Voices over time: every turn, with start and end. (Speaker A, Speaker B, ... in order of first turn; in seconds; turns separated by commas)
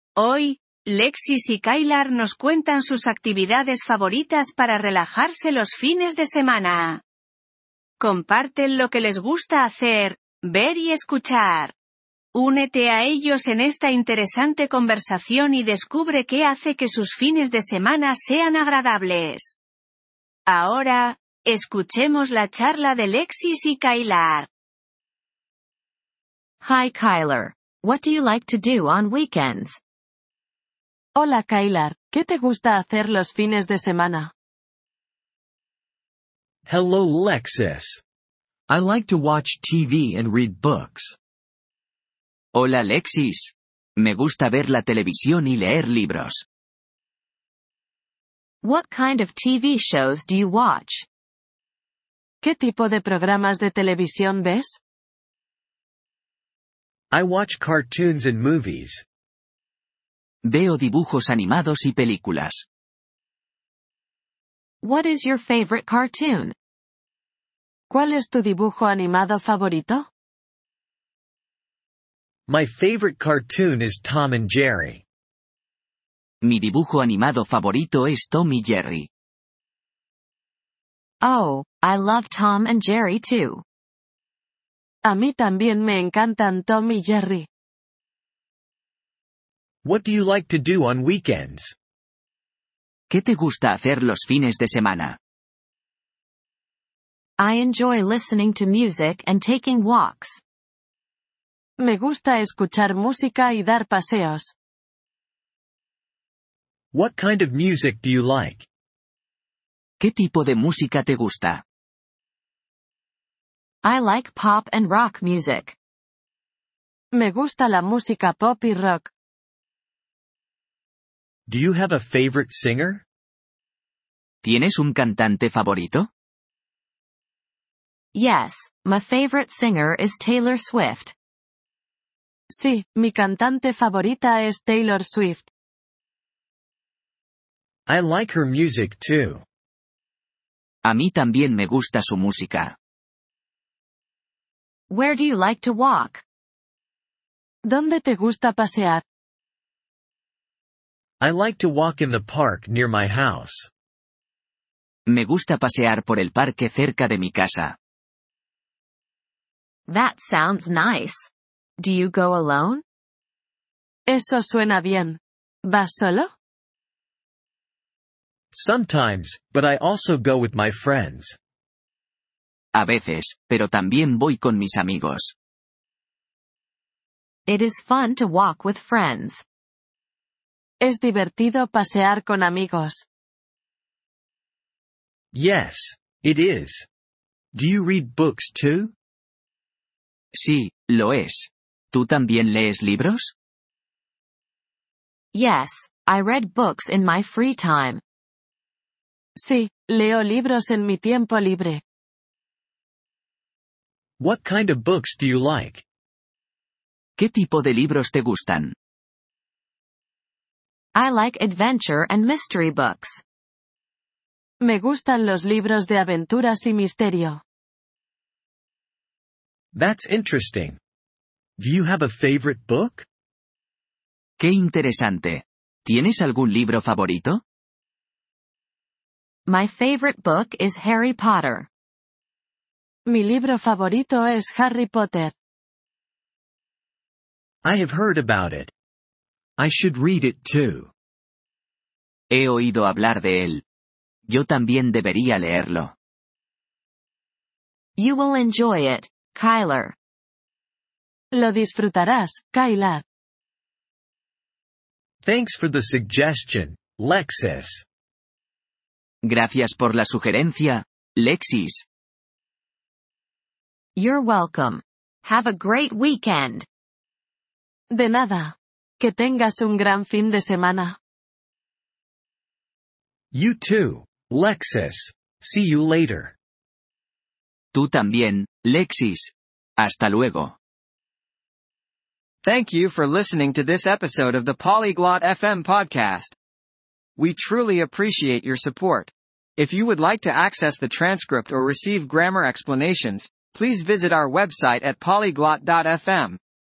Speaker A: 0.2-7.0, Speaker A: 8.0-11.8, Speaker A: 12.3-19.6, Speaker A: 20.5-24.5, Speaker B: 26.6-29.8, Speaker C: 31.1-34.3, Speaker D: 36.7-38.0, Speaker D: 38.7-41.2, Speaker E: 42.5-46.5, Speaker B: 48.6-51.1, Speaker C: 52.4-54.8, Speaker D: 57.1-59.0, Speaker E: 60.5-62.6, Speaker B: 64.8-66.5, Speaker C: 67.9-70.0, Speaker D: 72.5-75.0, Speaker E: 76.4-79.1, Speaker B: 81.2-83.6, Speaker C: 85.0-87.5, Speaker D: 89.8-91.8, Speaker E: 93.1-95.2, Speaker B: 97.4-100.4, Speaker C: 101.8-104.5, Speaker D: 106.9-108.7, Speaker E: 110.0-111.6, Speaker B: 113.8-115.8, Speaker C: 117.1-119.1, Speaker D: 121.5-123.0, Speaker E: 124.4-126.1, Speaker B: 128.1-131.1, Speaker C: 132.5-135.5, Speaker D: 137.9-139.4, Speaker E: 140.8-142.7, Speaker B: 144.9-146.2, Speaker C: 147.7-149.0, Speaker D: 151.2-153.7, Speaker E: 155.1-157.8, Speaker B: 159.9-162.8, Speaker C: 164.1-166.3, Speaker D: 168.5-171.4, Speaker E: 172.8-175.3, Speaker B: 177.5-179.4, Speaker C: 180.8-183.0, Speaker D: 185.3-186.9, Speaker D: 187.5-188.9, Speaker E: 190.4-193.3, Speaker B: 195.3-198.0, Speaker C: 199.4-201.8, Speaker D: 204.2-205.8, Speaker E: 207.2-208.8, Speaker B: 210.9-213.2, Speaker C: 214.6-217.4, Speaker D: 219.7-220.8, Speaker D: 221.6-223.1, Speaker E: 224.4-227.4, Speaker B: 229.5-231.7, Speaker C: 233.1-235.3, Speaker D: 237.6-238.7, Speaker D: 239.6-240.9, Speaker E: 242.3-243.6, Speaker E: 244.3-245.9, Speaker B: 248.0-249.9, Speaker C: 251.3-253.0, Speaker D: 255.2-257.8, Speaker E: 259.2-261.9, Speaker B: 264.0-266.7, Speaker C: 267.9-271.0, Speaker D: 273.3-276.4, Speaker E: 277.7-280.6, Speaker F: 282.4-286.4, Speaker F: 287.2-296.4